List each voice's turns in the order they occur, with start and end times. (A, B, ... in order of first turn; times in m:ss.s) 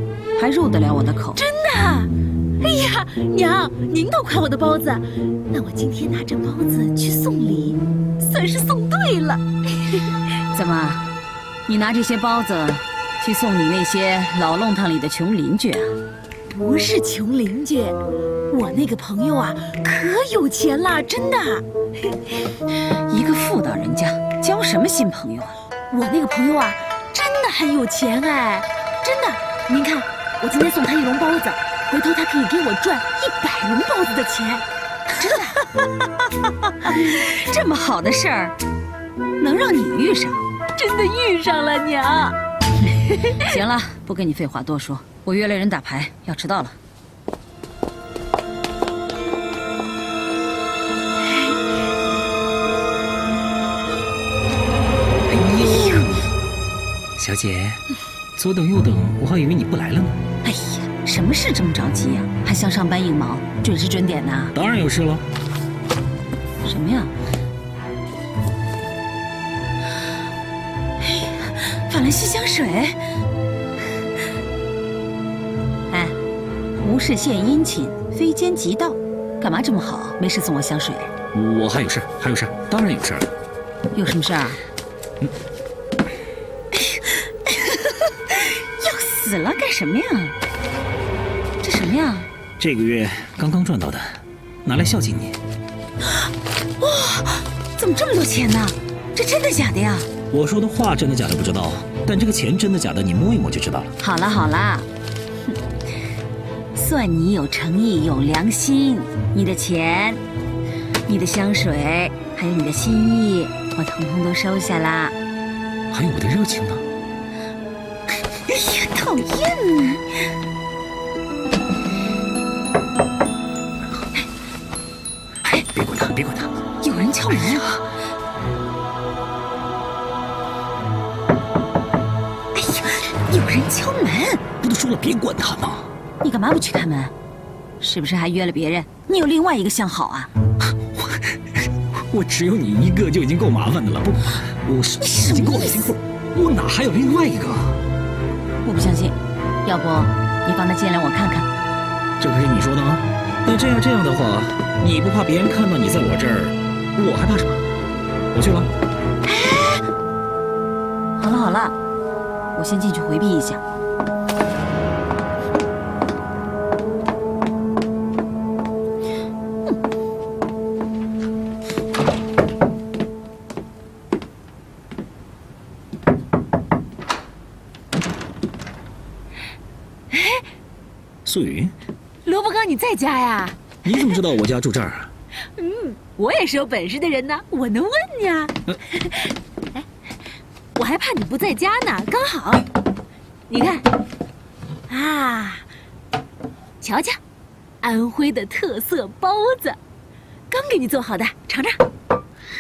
0:00.4-0:01.4 A
0:01.4-0:10.0 B
0:10.5-0:11.1 A
0:11.7-0:15.9 A
0:16.6-0:18.0 B
0:18.5-0:21.6 B
0:23.1-0:25.6 A
0:25.9-0:34.6 B
0:35.2-0:35.6 B
0:36.8-0:38.6 A
0:39.4-0:40.4 A
0:40.8-0:42.4 B
0:43.4-0:46.8 A
0:55.4-0:56.0 A
0:57.2-0:57.8 C
0:58.4-1:00.2 C
1:00.4-1:04.5 A
1:04.5-1:05.2 C
1:06.6-1:07.1 A
1:11.7-1:13.0 A
1:15.9-1:16.2 A
1:16.8-1:21.1 A
1:21.3-1:23.3 C
1:23.9-1:24.6 A
1:26.9-1:30.4 A
1:31.6-1:32.3 A
1:32.6-1:35.4 C
1:36.8-1:40.1 A
1:40.3-1:43.9 C
1:44.0-1:44.9 A
1:46.8-1:50.2 A
1:51.1-1:55.1 A
1:55.9-1:56.8 C
1:58.5-2:00.0 A
2:05.5-2:06.5 C
2:06.8-2:07.8 A
2:12.6-2:14.4 A
2:14.6-2:15.9 C
2:16.2-2:17.1 A
2:17.8-2:20.3 A
2:22.1-2:27.8 C
2:25.0-2:25.9 A
2:28.6-2:31.5 A
2:32.2-2:37.6 C
2:38.3-2:38.7 C
2:39.4-2:39.8 A
2:41.2-2:41.8 A
2:42.6-2:43.6 A
3:00.1-3:00.4 B
3:01.2-3:01.7 C
3:02.3-3:04.0 B
3:03.8-3:05.1 C
3:05.6-3:09.8 B
3:10.8-3:12.6 B
3:13.5-3:13.8 B
3:14.9-3:15.6 B
3:16.8-3:17.2 B
3:17.8-3:19.8 B
3:20.5-3:21.8 B